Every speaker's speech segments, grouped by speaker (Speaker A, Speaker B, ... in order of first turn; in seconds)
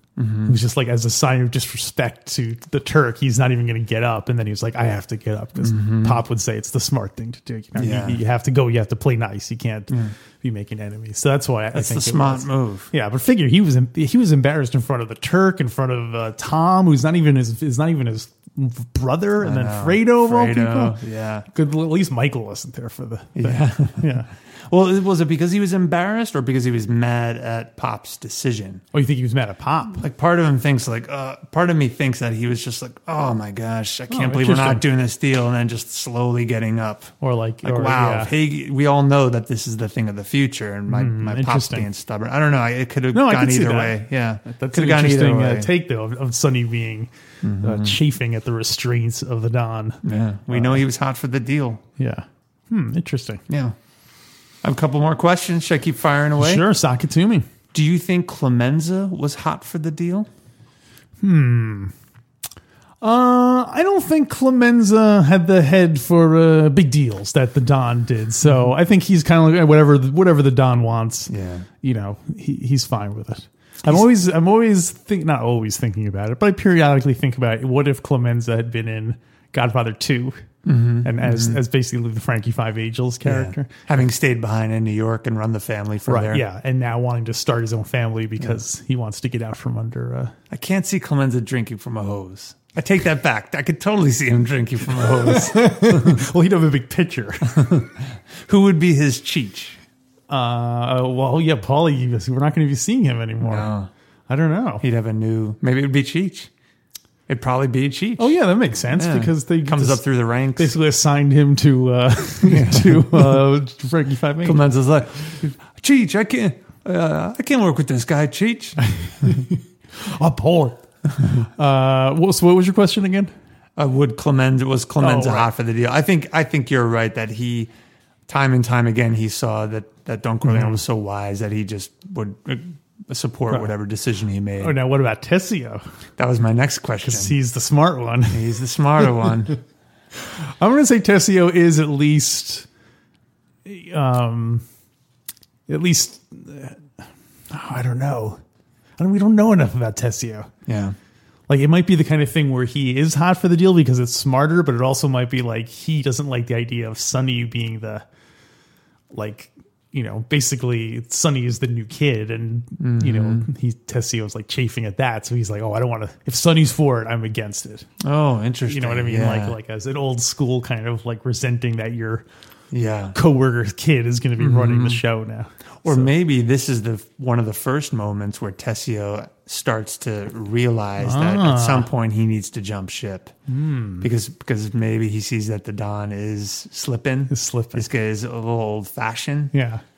Speaker A: 0.2-0.6, 5.6-6.2, 7.8-8.2, 11.7-12.9, 19.4-21.5, 23.4-24.1, 24.7-28.8, 30.0-45.7, 47.4-48.0, 50.0-51.8, 53.5-53.8, 54.6-56.6, 57.7-60.3, 71.3-71.7, 80.7-81.6, 83.2-86.4, 90.5-96.2, 97.5-97.9, 98.5-99.8, 103.4-103.9, 104.8-106.5, 107.3-108.3, 108.9-110.7, 112.4-113.5, 114.4-119.4, 123.8-127.7, 128.3-134.8, 136.2-137.4, 138.3-139.6, 150.7-151.0, 162.8-163.5, 168.0-169.6, 172.7-173.2, 174.4-175.0, 175.8-183.3, 184.0-189.5
Speaker B: 0.5-21.0, 21.5-24.3, 28.9-30.0, 34.1-34.9, 37.2-38.3, 40.9-41.9, 43.1-50.8, 52.0-53.4, 56.4-57.5, 61.2-61.9, 63.0-83.9, 86.1-90.3, 95.2-97.7, 100.3-103.7, 104.3-104.8, 108.2-110.0, 110.6-114.6, 118.8-123.3, 125.0-125.5, 130.5-130.8, 134.6-135.8, 137.0-138.5, 140.6-142.7, 143.7-144.6, 145.7-146.9, 147.5-148.4, 149.0-150.5, 151.5-158.1, 159.1-167.9, 168.7-172.2, 173.1-176.1, 181.0-181.9, 183.5-184.1, 187.3-187.9, 189.5-189.8